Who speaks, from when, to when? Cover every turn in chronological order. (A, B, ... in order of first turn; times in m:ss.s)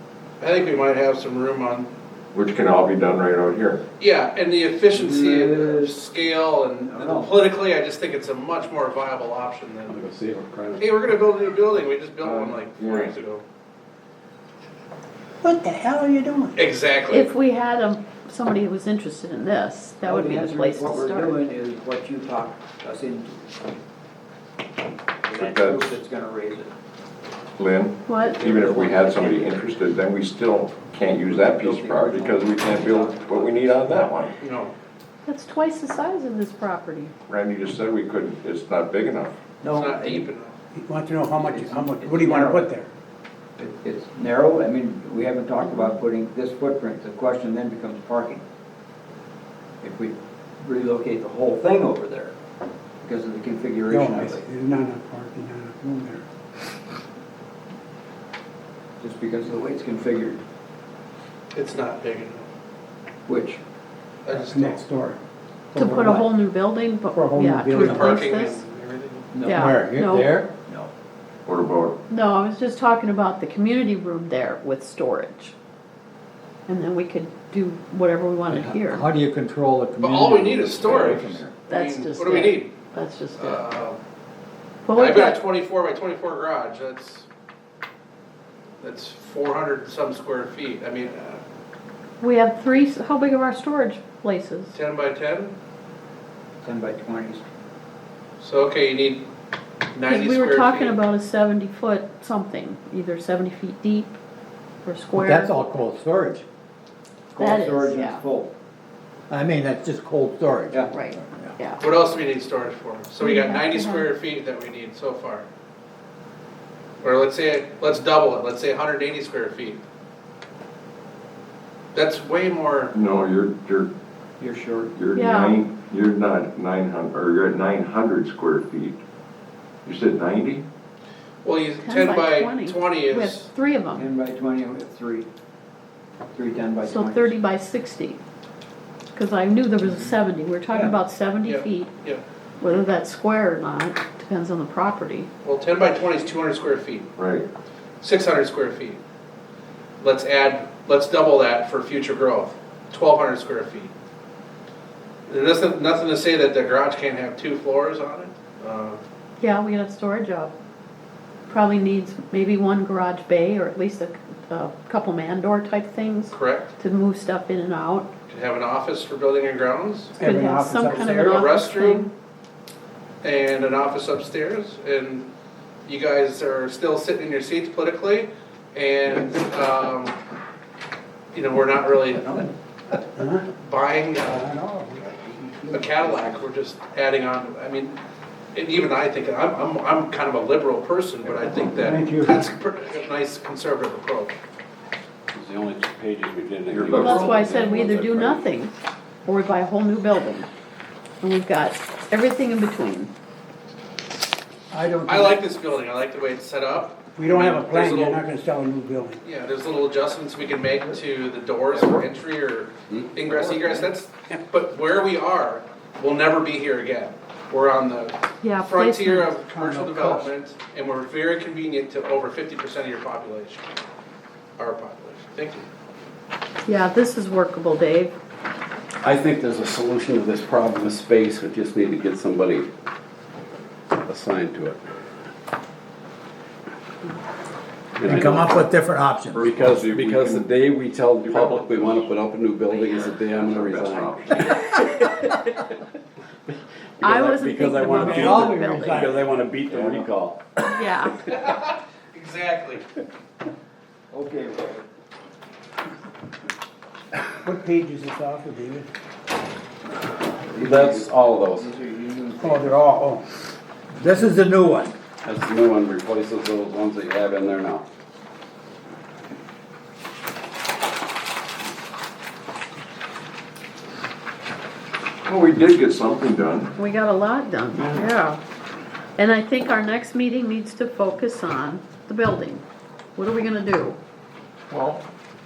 0:00.4-0:01.9 A
0:02.3-0:03.8 B
0:04.0-0:10.0 A
0:04.9-0:06.0 C
0:06.9-0:07.3 C
0:09.9-0:10.9 D
0:10.8-0:13.4 A
0:12.2-0:13.1 B
0:15.4-0:16.6 E
0:16.6-0:17.3 A
0:17.1-0:21.4 F
0:20.0-0:23.8 C
0:25.2-0:26.7 C
0:25.4-0:26.0 B
0:27.6-0:34.4 B
0:28.1-0:28.4 F
0:28.2-0:29.7 C
0:31.2-0:34.3 C
0:34.4-0:34.7 A
0:35.3-0:37.1 F
0:37.3-0:39.4 B
0:39.6-0:40.2 C
0:39.7-0:40.6 A
0:40.8-0:42.9 E
0:41.4-0:42.7 C
0:43.6-0:48.4 C
0:49.8-0:52.4 C
0:53.0-0:54.5 C
0:53.9-0:56.2 E
0:59.0-1:00.4 C
1:01.5-1:02.5 A
1:03.3-1:03.6 C
1:04.3-1:04.8 A
1:04.3-1:05.2 E
1:05.8-1:06.2 E
1:05.8-1:08.6 F
1:05.8-1:06.3 C
1:07.2-1:08.0 E
1:07.7-1:09.3 A
1:09.3-1:09.7 C
1:09.4-1:10.4 F
1:09.5-1:10.5 G
1:11.4-1:12.0 B
1:12.1-1:15.6 F
1:16.7-1:19.1 F
1:18.5-1:21.5 G
1:20.0-1:22.8 A
1:21.7-1:23.7 F
1:23.4-1:24.0 A
1:24.8-1:25.4 F
1:24.9-1:27.3 A
1:28.8-1:31.4 A
1:32.2-1:34.8 F
1:34.7-1:35.6 A
1:36.6-1:37.4 C
1:38.4-1:39.3 A
1:40.0-1:41.0 A
1:40.1-1:44.2 F
1:44.8-1:45.9 F
1:45.2-1:46.4 G
1:47.3-1:48.5 C
1:47.4-1:48.3 F
1:49.3-1:51.6 G
1:50.9-1:51.8 F
1:51.8-1:55.4 A
1:53.2-1:54.1 F
1:57.0-1:59.8 A
2:01.9-2:02.9 A
2:02.9-2:03.9 B
2:04.4-2:04.9 C
2:05.0-2:09.0 B
2:05.2-2:05.6 F
2:09.8-2:10.7 B
2:11.4-2:13.5 A
2:11.8-2:14.1 F
2:14.0-2:15.3 C
2:16.3-2:17.4 C
2:16.8-2:18.2 F
2:19.1-2:22.0 F
2:21.4-2:22.2 A
2:22.6-2:25.3 F
2:25.4-2:27.1 A
2:27.2-2:27.5 B
2:28.0-2:29.0 A
2:30.0-2:33.9 A
2:35.3-2:39.0 A
2:39.4-2:40.5 F
2:41.5-2:48.1 F
2:46.3-2:46.7 A
2:48.3-2:50.2 A
2:50.2-2:51.3 E
2:50.2-2:52.1 F
2:50.9-2:52.1 A
2:53.2-2:55.3 A
2:55.9-3:00.2 A
3:01.3-3:02.5 A
3:03.2-3:03.5 E
3:03.6-3:04.5 A
3:04.3-3:05.9 E
3:05.7-3:08.0 A
3:08.5-3:14.4 A
3:11.8-3:12.4 E
3:15.3-3:18.4 D
3:16.7-3:17.6 B
3:17.0-3:20.5 F
3:21.2-3:23.1 F
3:24.7-3:25.4 G
3:25.1-3:28.3 A
3:27.2-3:29.2 E
3:29.2-3:43.7 A
3:38.4-3:39.8 F
3:39.8-3:40.3 E
3:44.6-3:45.7 A
3:46.6-3:48.2 F
3:49.0-3:52.7 D
3:54.0-3:54.8 D
3:58.0-3:58.7 D
3:58.0-3:59.5 G
3:59.3-4:05.6 D
3:59.5-4:00.5 B
4:01.2-4:02.0 B
4:02.7-4:04.4 B
4:06.5-4:10.6 D
4:07.0-4:08.9 F
4:08.0-4:09.3 G
4:08.0-4:09.2 E
4:09.7-4:10.1 B
4:10.6-4:11.2 F
4:11.3-4:12.8 A
4:14.1-4:14.8 C
4:17.4-4:18.9 E
4:20.4-4:22.8 C
4:20.6-4:21.7 D
4:22.4-4:23.2 E
4:23.9-4:25.0 G
4:25.2-4:27.8 D
4:35.2-4:36.7 B
4:36.8-4:38.4 F
4:39.2-4:42.6 F
4:43.2-4:44.0 F
4:44.7-4:45.0 B